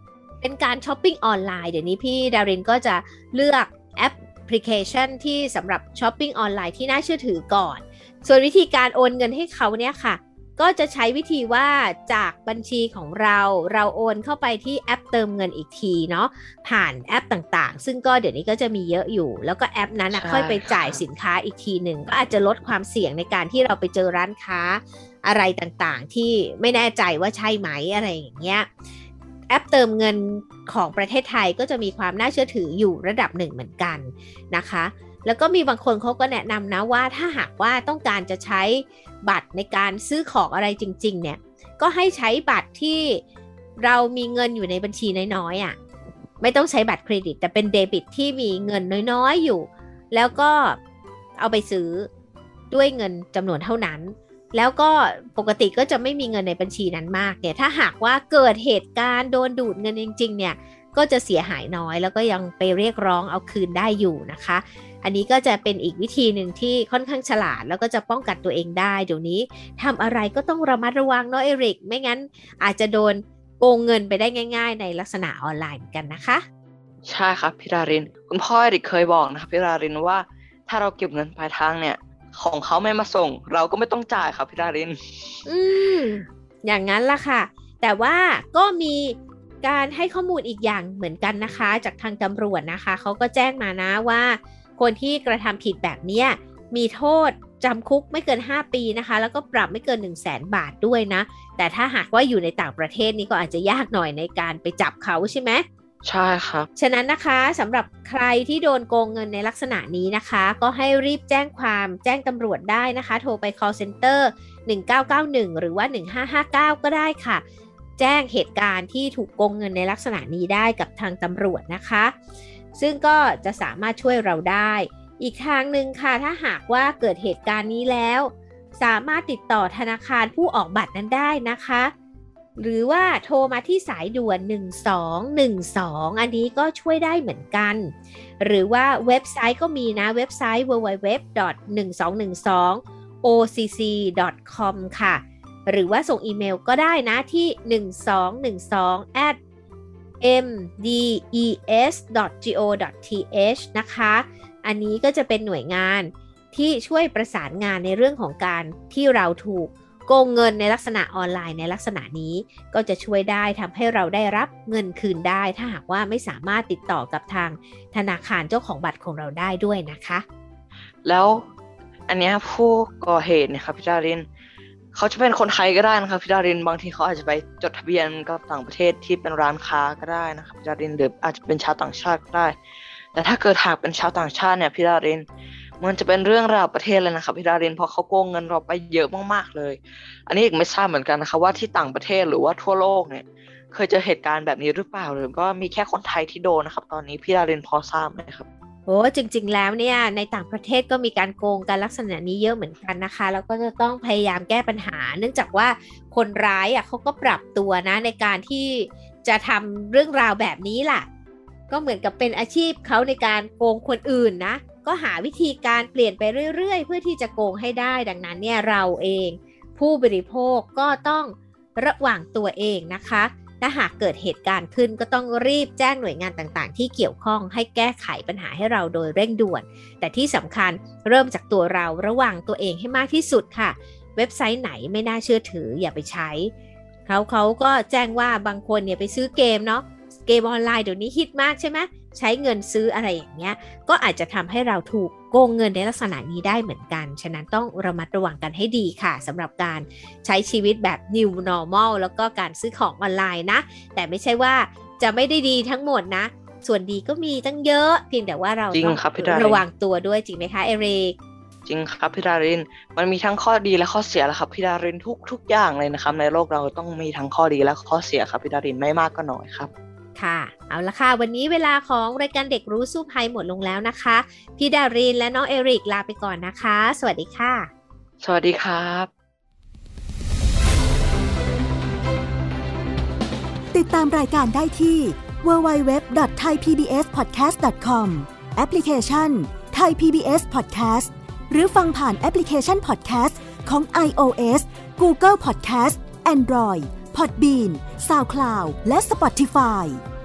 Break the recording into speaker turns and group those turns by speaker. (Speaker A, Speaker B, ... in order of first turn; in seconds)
Speaker A: 0.4-28.7, 29.5-43.2, 43.8-45.8, 46.4-50.8, 51.4-52.1, 52.7-76.4, 85.5-105.7, 106.8-117.4, 118.0-122.2, 122.8-131.9, 132.6-149.4, 150.2-170.2, 198.9-211.1, 211.7-236.5, 237.1-261.2, 270.2-277.7
Speaker B: 20.1-21.0, 77.1-85.4, 106.0-106.7, 171.1-171.5, 172.1-174.2, 174.9-182.6, 183.2-185.3, 185.8-198.5, 258.7-259.6, 261.7-269.7, 278.2-279.1
Speaker C: 283.7-300.0